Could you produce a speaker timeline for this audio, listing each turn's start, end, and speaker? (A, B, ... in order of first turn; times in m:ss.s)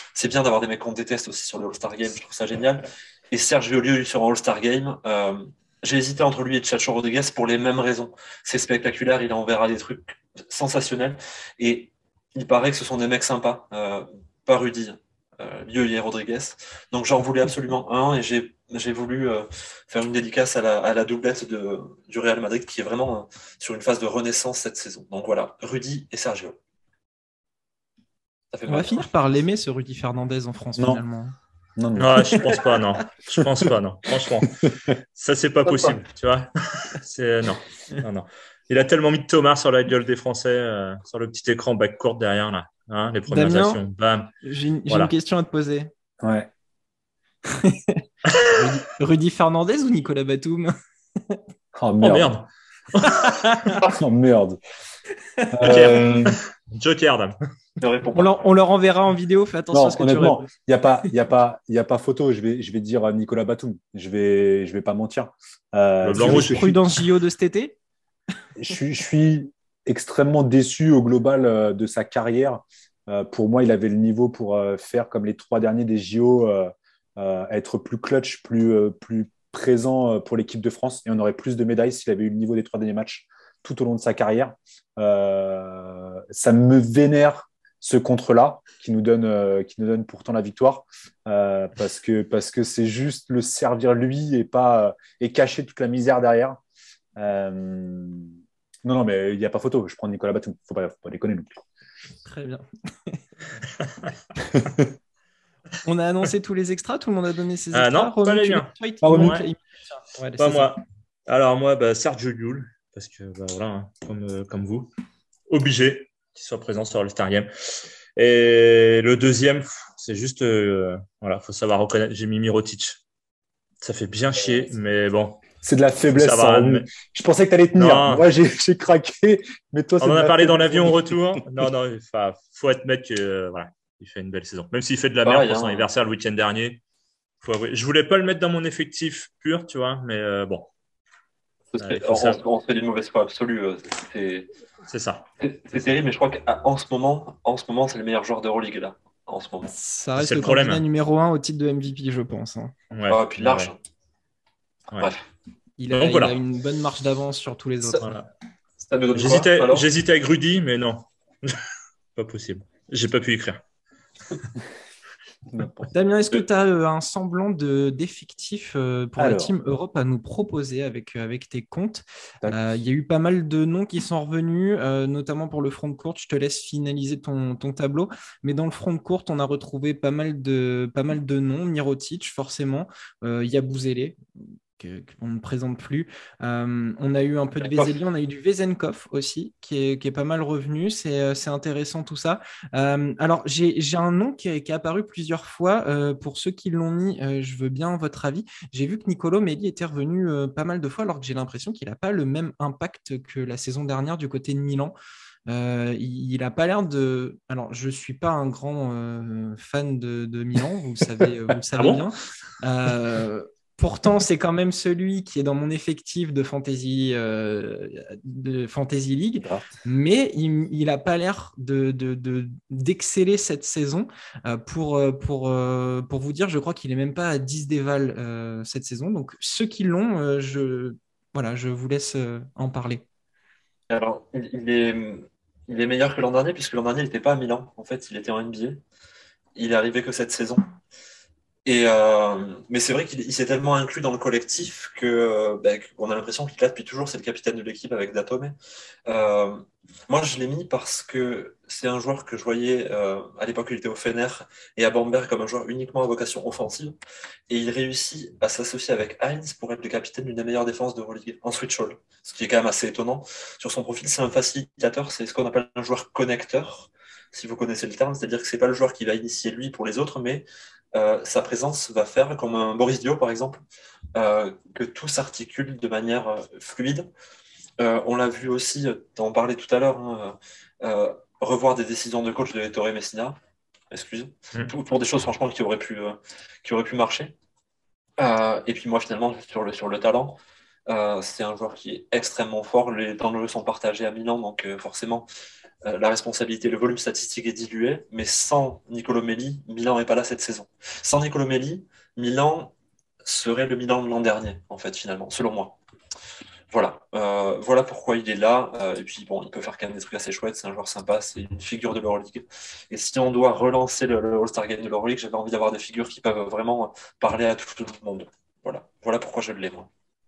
0:00.1-0:26.6 A
0:28.5-0:29.1 A
0:28.7-0:31.3 B
0:30.8-0:31.0 C
0:31.8-0:32.4 C
0:32.0-0:44.3 D
0:35.6-0:36.0 A
0:43.3-0:43.8 B
0:44.4-0:45.9 B
0:46.2-0:46.5 C
0:47.5-0:50.7 B
0:51.7-0:52.3 C
0:52.0-0:53.8 D
0:53.9-0:54.6 C
0:55.5-0:56.4 C
0:55.6-0:57.4 D
0:57.8-0:58.4 A
0:58.1-1:00.4 B
0:59.7-1:06.8 C
1:06.0-1:06.8 D
1:06.1-1:07.8 B
1:08.6-1:36.6 C
1:37.2-1:41.6 C
1:42.2-1:43.2 B
1:44.5-1:44.8 C
1:45.8-1:50.7 B
1:47.7-1:49.5 D
1:49.0-1:49.4 C
1:50.4-1:54.9 D
1:55.5-2:03.0 D
2:03.8-2:05.5 D
2:05.6-2:11.4 C
2:06.1-2:06.9 D
2:07.7-2:08.3 D
2:10.0-2:16.8 D
2:15.2-2:15.9 A
2:17.4-2:20.7 D
2:21.7-2:24.5 A
2:21.8-2:22.4 D
2:24.9-2:25.3 D
2:25.4-2:29.7 A
2:29.6-2:32.7 B
2:30.2-2:30.8 D
2:32.9-2:33.7 D
2:33.1-2:33.8 A
2:34.9-2:35.2 A
2:35.8-2:38.1 B
2:35.9-2:36.4 D
2:37.8-2:38.1 A
2:38.0-2:38.3 D
2:38.8-2:39.9 A
2:39.1-2:41.6 D
2:42.1-2:43.6 D
2:45.5-2:45.9 C
2:45.9-3:04.2 B
2:49.2-2:49.5 C
3:04.8-3:24.9 B
3:07.6-3:07.9 A
3:25.5-3:53.0 B
3:31.7-3:32.1 D
3:39.4-3:39.7 C
3:53.9-3:58.8 A
3:59.5-4:00.7 A
4:01.6-4:17.0 A
4:17.5-4:33.6 A
4:34.1-4:37.1 A
4:37.8-4:43.4 A
4:43.9-4:47.3 A
4:48.2-4:55.3 A
4:55.8-5:02.7 A
5:03.2-5:05.8 A
5:06.7-5:19.9 A